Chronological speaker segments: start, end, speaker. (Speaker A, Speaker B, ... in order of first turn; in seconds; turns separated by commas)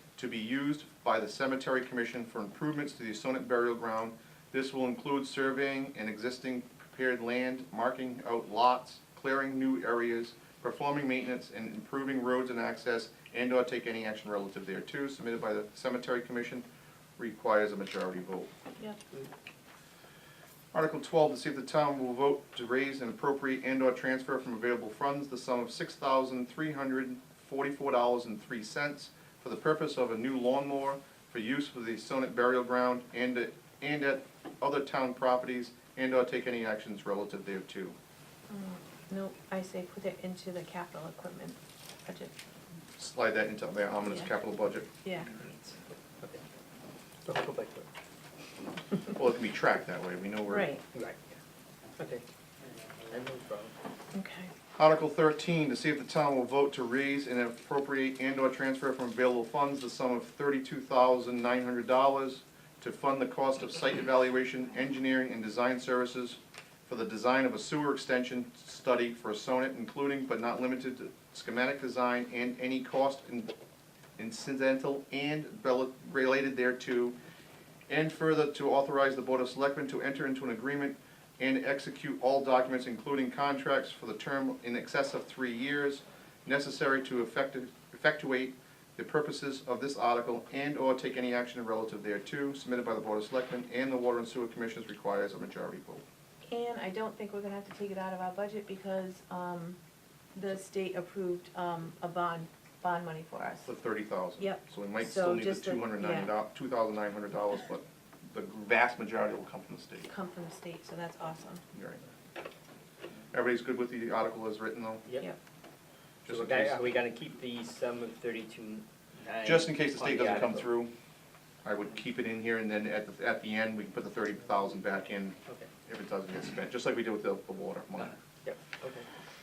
Speaker A: 0.2-16.6, Speaker A: 17.2-18.5, Speaker A: 20.7-37.9, Speaker B: 38.5-42.3, Speaker A: 43.0-44.9, Speaker B: 45.0-45.3, Speaker C: 45.4-46.4, Speaker C: 47.2-47.9, Speaker A: 49.1-50.7, Speaker B: 50.5-50.8, Speaker C: 50.9-51.4, Speaker C: 52.0-52.2, Speaker C: 53.1-53.7, Speaker B: 54.1-54.5, Speaker A: 54.8-73.5, Speaker A: 74.2-77.1, Speaker A: 77.9-96.0, Speaker B: 96.5-99.8, Speaker B: 100.3-103.7, Speaker A: 103.7-110.1, Speaker B: 104.4-106.3, Speaker B: 110.1-111.6, Speaker A: 111.7-112.0, Speaker A: 113.3-115.0, Speaker A: 116.2-116.8, Speaker C: 116.3-120.7, Speaker A: 119.4-120.9, Speaker A: 121.6-128.2, Speaker C: 128.0-129.1